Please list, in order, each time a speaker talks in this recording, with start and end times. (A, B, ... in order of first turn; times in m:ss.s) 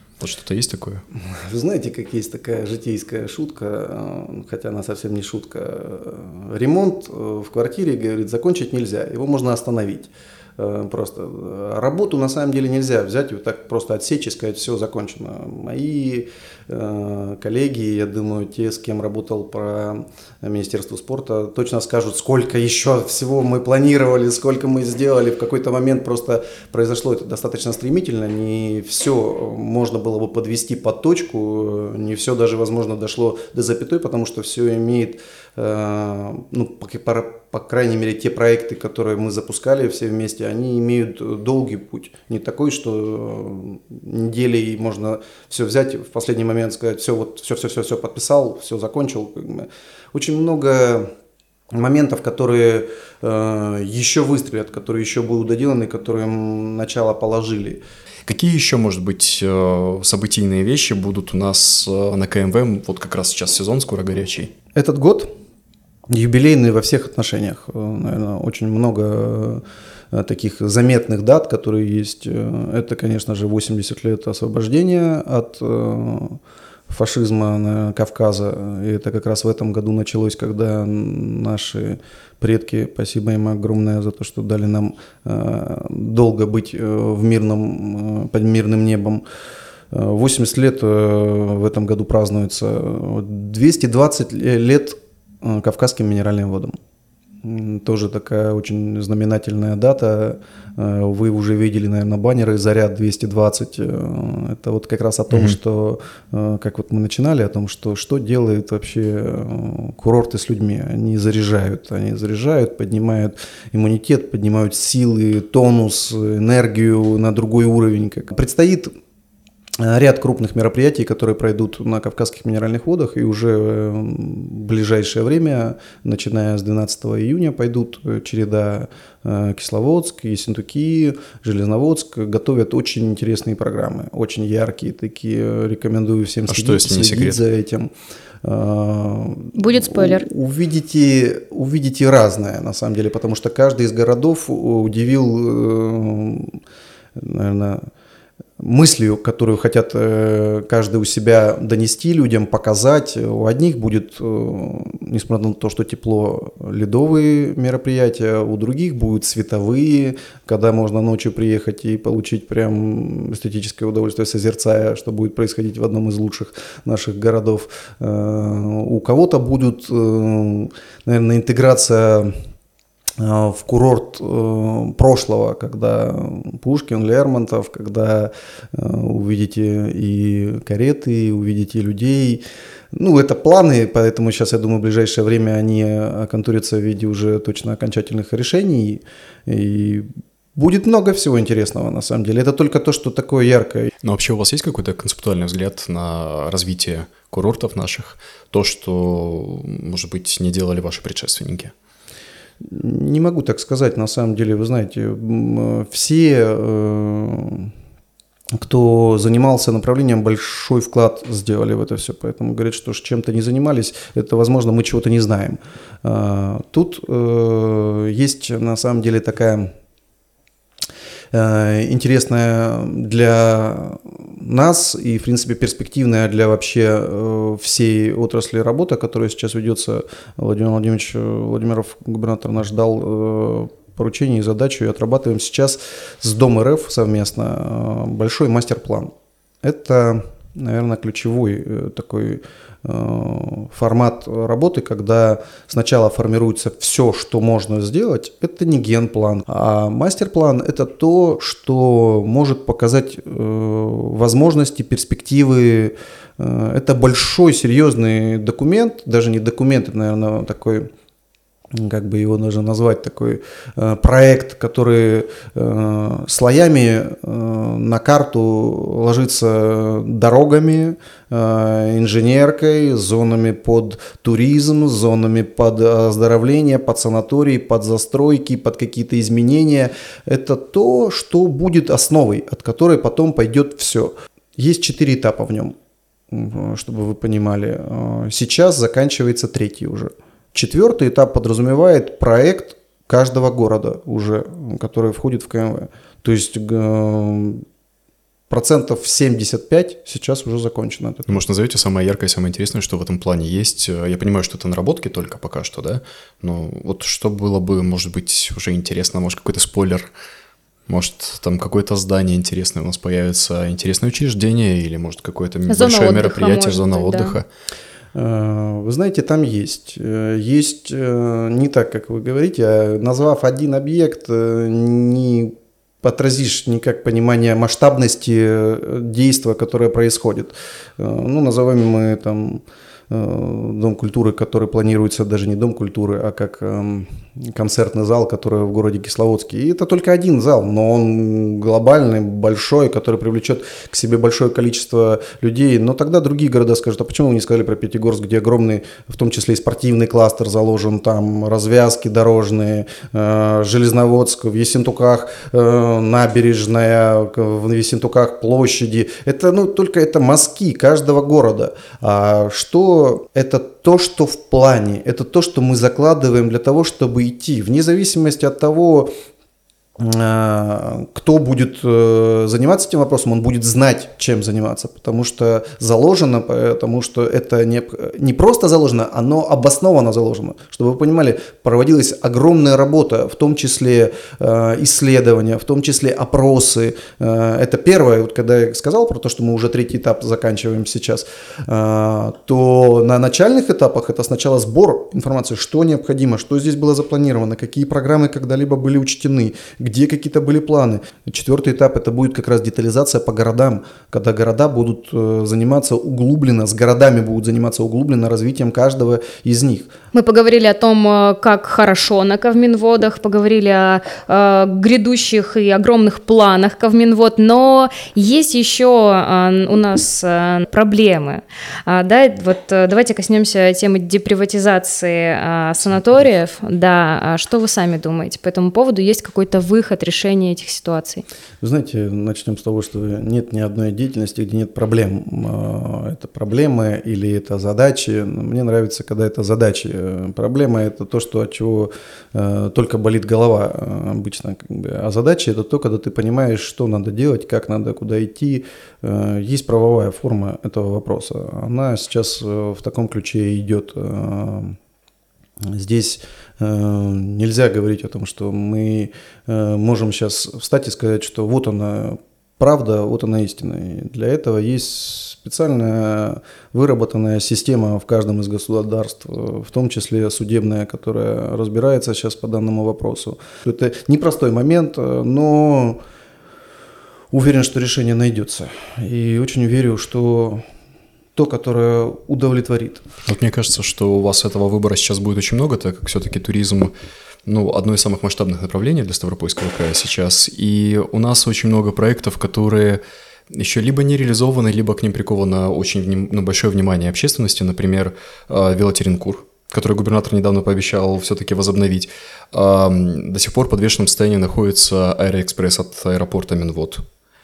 0:00.2-0:01.0 A
0:01.3-0:51.1 B
0:51.7-0:57.8 B
0:58.3-1:04.5 A
1:04.8-1:05.3 B
1:06.1-1:29.2 B
1:29.9-1:36.8 B
1:37.4-1:58.9 B
1:45.3-1:45.6 A
1:59.8-2:17.9 B
2:16.5-2:17.4 A
2:18.4-2:26.6 B
2:19.6-2:20.3 C
2:27.2-2:27.8 B
2:28.6-2:52.4 B
2:53.2-3:02.4 B
3:02.9-3:13.9 B
3:14.0-3:21.7 A
3:22.6-3:27.7 B
3:28.6-3:39.7 B
3:41.3-4:20.9 B
4:21.7-4:45.8 B
4:46.3-4:57.7 B
4:58.5-5:01.4 B
5:01.3-5:10.1 A
5:10.9-5:17.5 A
5:15.7-5:17.4 C
5:18.1-6:09.1 B
6:10.0-6:49.9 B
6:50.1-7:11.2 C
7:11.6-7:34.8 B
7:35.7-7:56.0 B
7:57.3-8:00.6 B
8:01.4-8:03.1 B
8:03.3-8:06.9 A
8:07.5-8:27.0 A